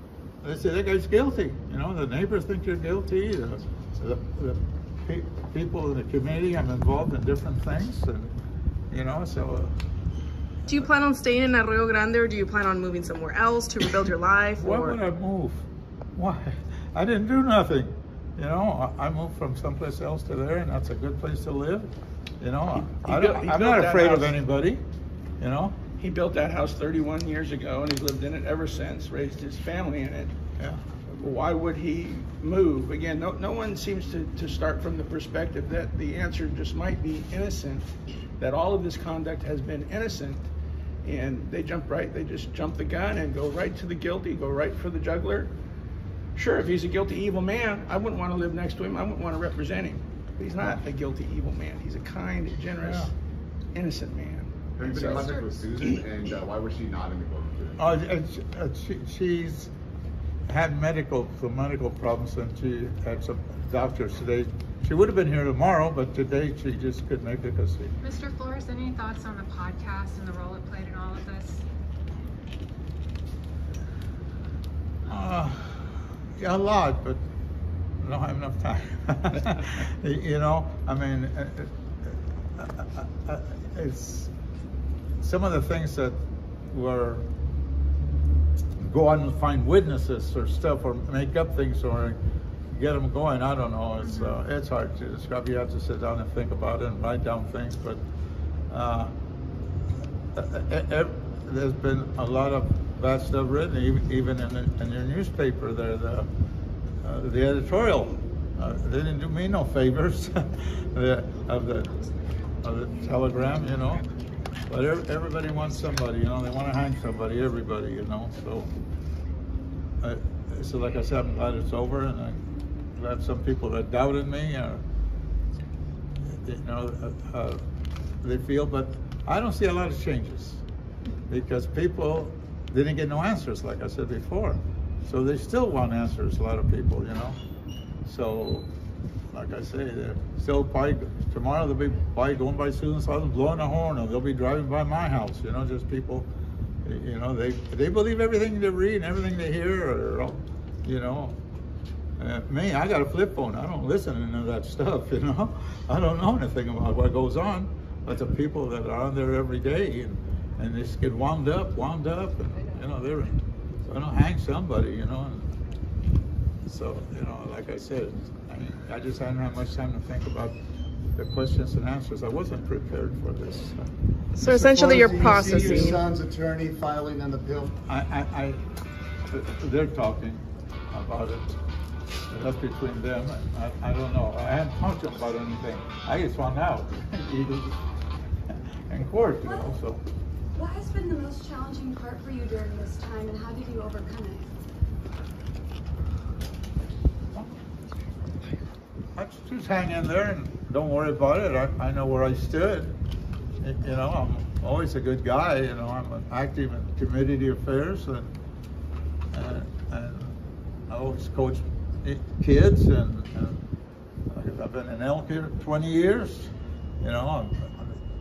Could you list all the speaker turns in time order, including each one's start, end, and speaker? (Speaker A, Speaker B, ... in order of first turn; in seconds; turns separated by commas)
Speaker A: 0.4-8.3, Speaker A: 8.9-9.7, Speaker B: 10.7-15.0, Speaker A: 14.6-24.8, Speaker C: 22.7-24.4, Speaker A: 25.4-25.8, Speaker C: 26.0-30.3, Speaker C: 31.2-40.5, Speaker C: 41.0-45.5, Speaker C: 46.4-53.1, Speaker A: 52.8-53.1, Speaker C: 53.7-55.9, Speaker D: 54.8-57.9, Speaker A: 57.8-59.7, Speaker A: 60.5-67.9, Speaker E: 68.0-71.6, Speaker A: 75.1-77.2, Speaker A: 78.0-84.3, Speaker A: 85.2-87.3, Speaker A: 88.8-92.2, Speaker A: 92.7-98.0, Speaker A: 98.7-99.1, Speaker A: 100.3-106.3, Speaker A: 107.0-112.0, Speaker A: 112.6-114.0, Speaker A: 114.7-118.7, Speaker A: 120.0-122.4, Speaker A: 123.0-124.8, Speaker A: 126.3-127.6, Speaker A: 128.2-130.6, Speaker A: 131.3-137.4, Speaker A: 138.0-138.7, Speaker A: 139.3-146.3, Speaker A: 146.8-151.4, Speaker A: 152.2-163.3, Speaker A: 163.9-165.5, Speaker A: 166.7-170.6, Speaker A: 171.2-173.9, Speaker B: 174.3-176.0, Speaker F: 174.4-177.7, Speaker A: 177.9-178.6, Speaker A: 179.3-181.6, Speaker A: 182.3-187.8, Speaker A: 188.9-190.0, Speaker G: 190.6-194.4, Speaker A: 199.2-202.9, Speaker A: 203.6-208.3, Speaker A: 209.3-210.4, Speaker A: 210.9-213.6, Speaker A: 214.3-218.0